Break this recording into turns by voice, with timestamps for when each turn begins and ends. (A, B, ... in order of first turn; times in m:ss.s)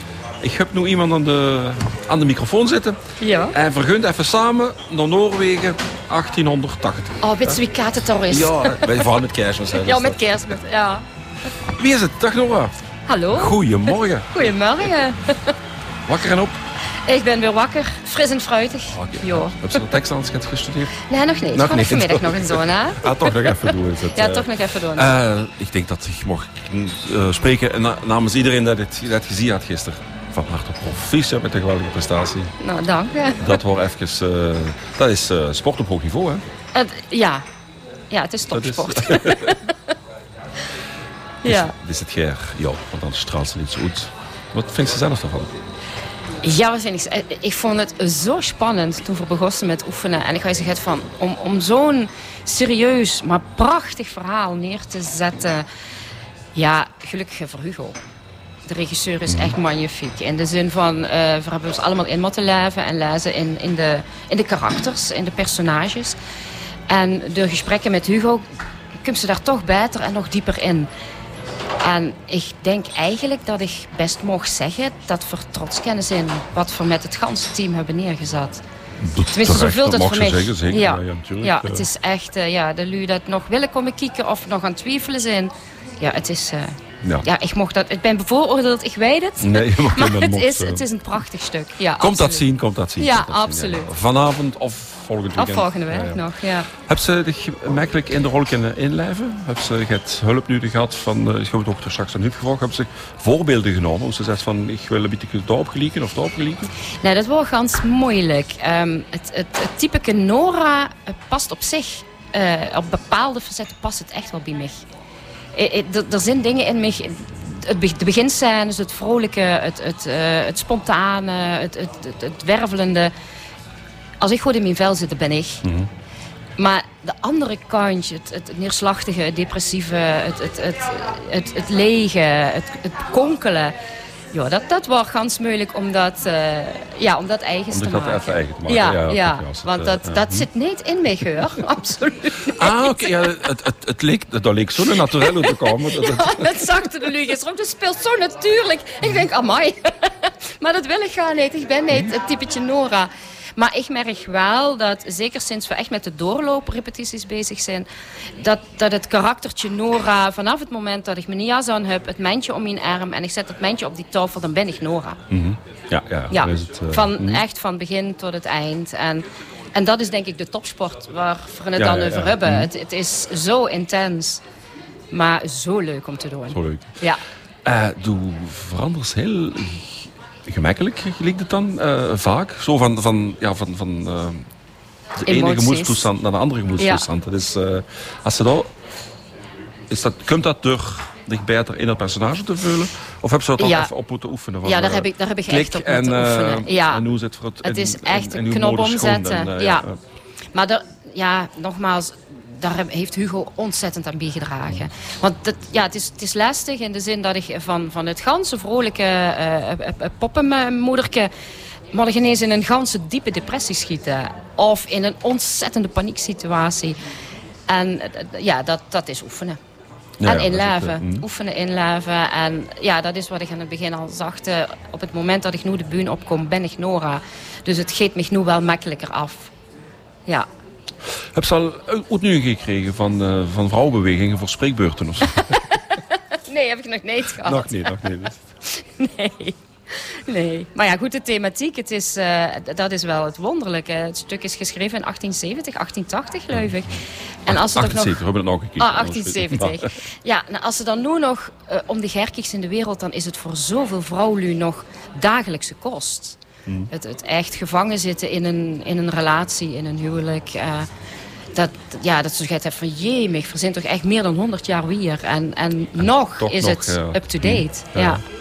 0:00.4-0:03.0 A
0:03.2-0:03.6 B
0:03.5-0:07.6 A
0:07.2-0:09.1 B
0:08.3-0:10.3 A
0:09.7-0:11.0 B
0:11.7-0:12.7 A
0:13.1-0:15.6 B
0:13.3-0:14.6 A
0:16.1-0:16.6 A
0:17.0-0:19.8 B
0:18.9-0:21.0 A
0:21.0-0:25.2 B
0:21.5-0:32.5 A
0:32.6-0:33.6 B
0:33.4-0:36.4 A
0:36.7-0:37.4 B
0:38.1-0:39.8 B
0:38.5-0:39.6 A
0:41.4-0:41.7 B
0:41.4-0:45.5 A
0:46.4-0:55.6 B
0:56.5-0:58.0 B
0:58.7-1:06.2 B
0:59.3-0:59.6 A
1:06.9-1:08.5 B
1:09.0-1:10.9 B
1:11.8-1:18.6 B
1:19.0-1:21.9 A
1:19.3-1:33.9 B
1:29.4-1:30.8 A
1:32.0-1:36.2 A
1:35.4-1:36.7 B
1:36.7-1:46.7 A
1:47.0-1:54.8 B
1:55.5-2:03.1 B
2:04.2-2:05.6 B
2:05.6-2:05.9 A
2:06.6-2:13.7 B
2:14.3-2:22.9 B
2:17.7-2:20.5 A
2:22.5-2:26.6 A
2:24.9-2:37.9 B
2:38.4-2:45.2 B
2:45.3-2:47.4 A
2:46.3-2:54.4 B
2:51.8-2:52.7 A
2:55.1-2:57.2 B
2:56.5-2:56.9 A
2:57.6-3:04.5 A
3:05.2-3:08.7 A
3:05.3-3:06.1 B
3:06.8-3:07.0 B
3:09.9-3:20.0 A
3:13.6-3:13.9 B
3:14.6-3:17.0 B
3:17.6-3:19.8 B
3:20.5-3:31.3 B
3:31.9-3:37.0 B
3:37.7-3:39.6 B
3:40.2-3:41.2 A
3:40.2-3:49.5 B
3:51.3-3:55.6 A
3:55.9-3:58.1 B
3:57.4-3:58.3 A
3:58.7-4:08.2 B
4:07.5-4:09.9 A
4:08.8-4:16.4 B
4:16.6-4:16.9 A
4:16.9-4:20.9 B
4:21.5-4:28.2 B
4:26.0-4:28.2 A